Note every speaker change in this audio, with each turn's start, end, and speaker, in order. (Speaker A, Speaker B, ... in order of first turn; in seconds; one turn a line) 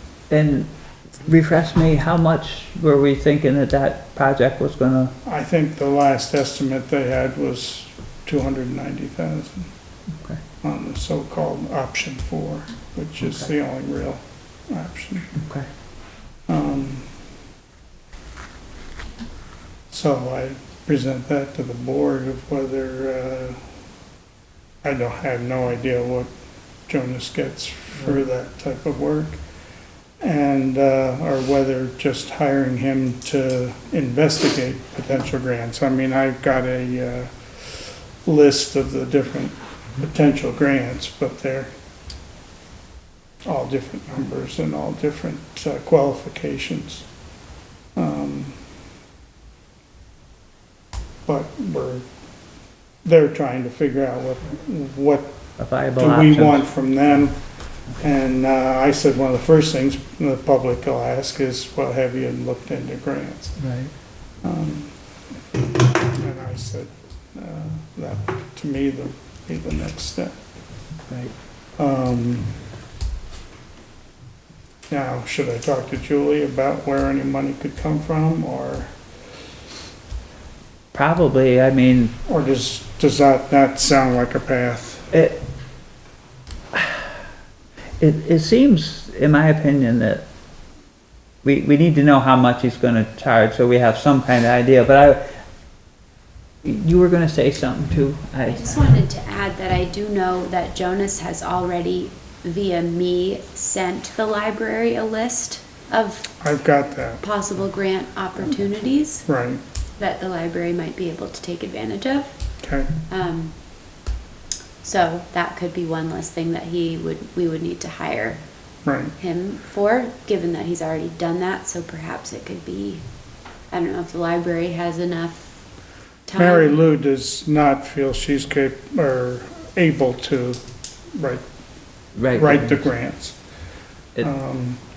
Speaker A: 0.3-0.7
Speaker A: 1.2-5.1
Speaker B: 5.2-9.7
Speaker B: 10.6-15.3
Speaker A: 15.4-15.7
Speaker B: 16.5-17.1
Speaker B: 19.9-23.6
Speaker B: 24.8-26.3
Speaker B: 26.9-29.4
Speaker B: 30.2-41.7
Speaker B: 43.4-47.1
Speaker B: 47.9-48.6
Speaker B: 51.2-52.1
Speaker B: 53.0-55.4
Speaker A: 55.6-56.7
Speaker B: 56.0-57.5
Speaker B: 58.0-63.6
Speaker A: 63.6-63.9
Speaker B: 64.4-65.2
Speaker B: 66.0-70.4
Speaker B: 71.8-72.6
Speaker B: 74.9-79.0
Speaker A: 80.9-82.1
Speaker B: 82.3-85.1
Speaker A: 85.1-85.4
Speaker A: 86.7-87.1
Speaker A: 88.0-90.2
Speaker A: 91.4-95.3
Speaker A: 96.6-98.9
Speaker C: 98.5-106.4
Speaker B: 106.4-107.2
Speaker C: 107.2-109.2
Speaker B: 109.2-109.6
Speaker C: 110.0-112.3
Speaker B: 112.6-112.9
Speaker C: 113.1-113.5
Speaker C: 114.8-118.4
Speaker B: 118.8-119.1
Speaker C: 119.2-123.0
Speaker C: 123.7-125.5
Speaker C: 126.2-126.7
Speaker B: 126.3-130.6
Speaker B: 131.1-131.4
Speaker A: 132.1-132.9
Speaker B: 132.3-133.4
Speaker B: 134.2-134.8